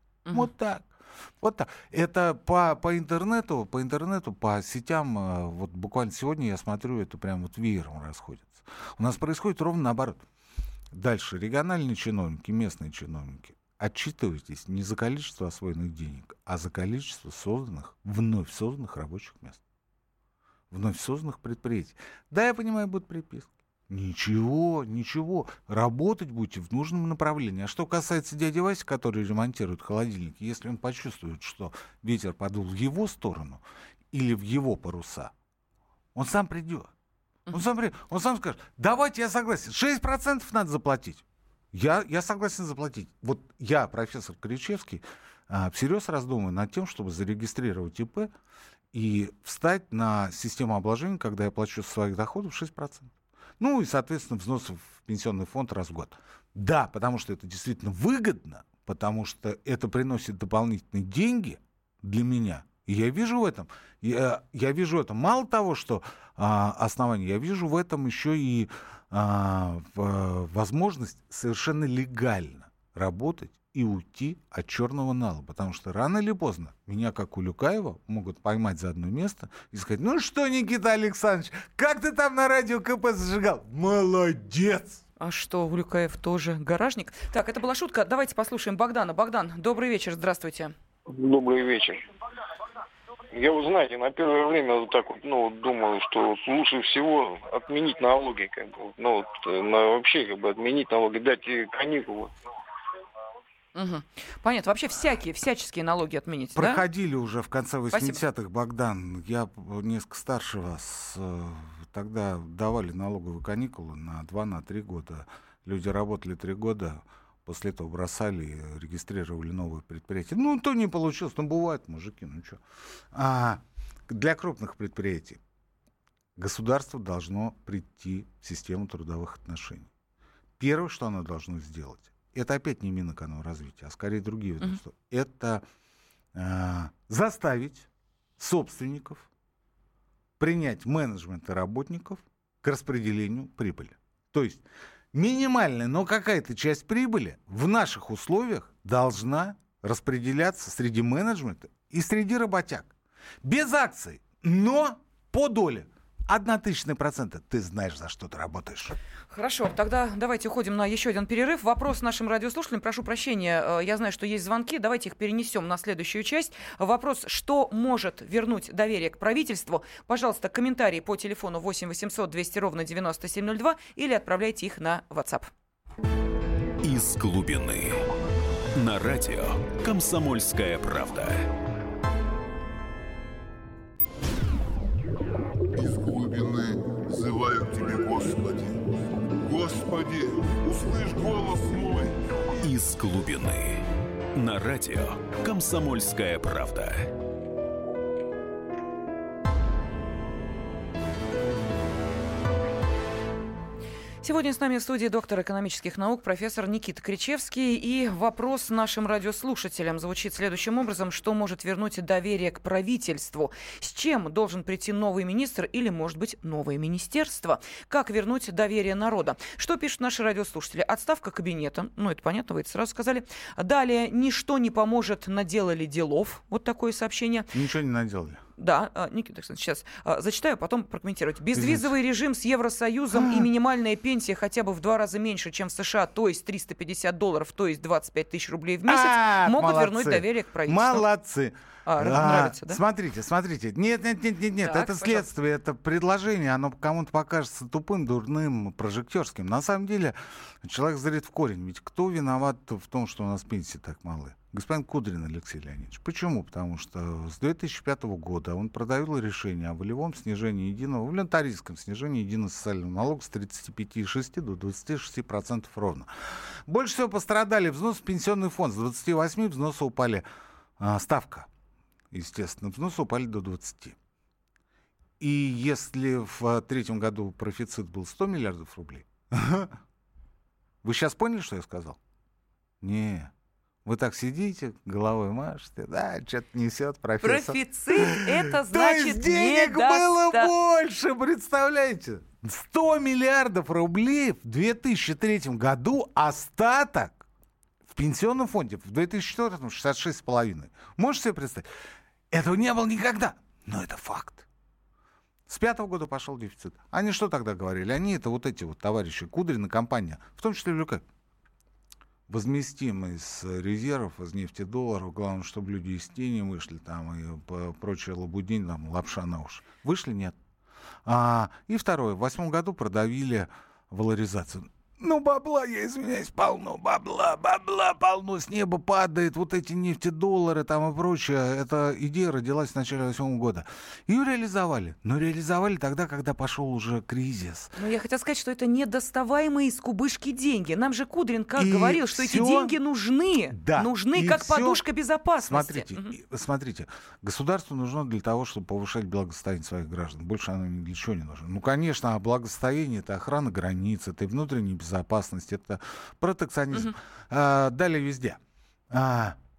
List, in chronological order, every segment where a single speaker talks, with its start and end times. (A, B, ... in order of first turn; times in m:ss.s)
0:00.2-0:00.5 A
0:00.3-0:10.2 B
0:10.9-0:19.6 B
0:20.7-0:35.3 B
0:36.1-0:36.9 B
0:37.5-0:48.3 B
0:48.9-1:25.0 B
1:25.2-1:30.7 A
1:31.1-1:32.1 C
1:33.3-1:42.3 C
1:43.7-1:46.8 A
1:46.5-2:02.6 B
1:47.9-1:48.2 A
2:03.1-2:05.4 B
2:06.4-2:09.9 B
2:10.6-2:15.6 B
2:16.3-2:17.9 B
2:18.4-2:19.3 B
2:20.4-2:32.9 B
2:33.4-2:39.0 B
2:39.3-2:55.5 A
2:56.8-2:58.0 D
2:58.7-3:01.5 D
3:05.8-3:08.8 E
3:09.4-3:12.4 E
3:12.6-3:17.1 D
3:24.2-3:47.5 A
3:47.5-3:48.4 B
3:48.6-4:01.0 A
3:51.5-3:51.9 B
3:53.1-3:53.5 B
3:58.8-4:30.2 B
4:01.8-4:02.8 A
4:04.6-4:05.2 A
4:30.8-4:31.5 B
4:32.1-4:34.0 B
4:35.2-4:39.7 B
4:40.8-4:42.0 B
4:42.8-4:43.3 B
4:43.8-4:57.2 B
4:47.2-4:50.5 A
4:57.9-5:01.7 B
5:02.3-5:04.4 B
5:05.5-5:11.0 B
5:12.3-5:20.4 B
5:21.0-5:37.7 B
5:37.8-5:46.1 A
5:41.6-5:42.8 B
5:43.5-5:44.8 B
5:45.4-5:58.4 B
5:58.9-5:59.4 B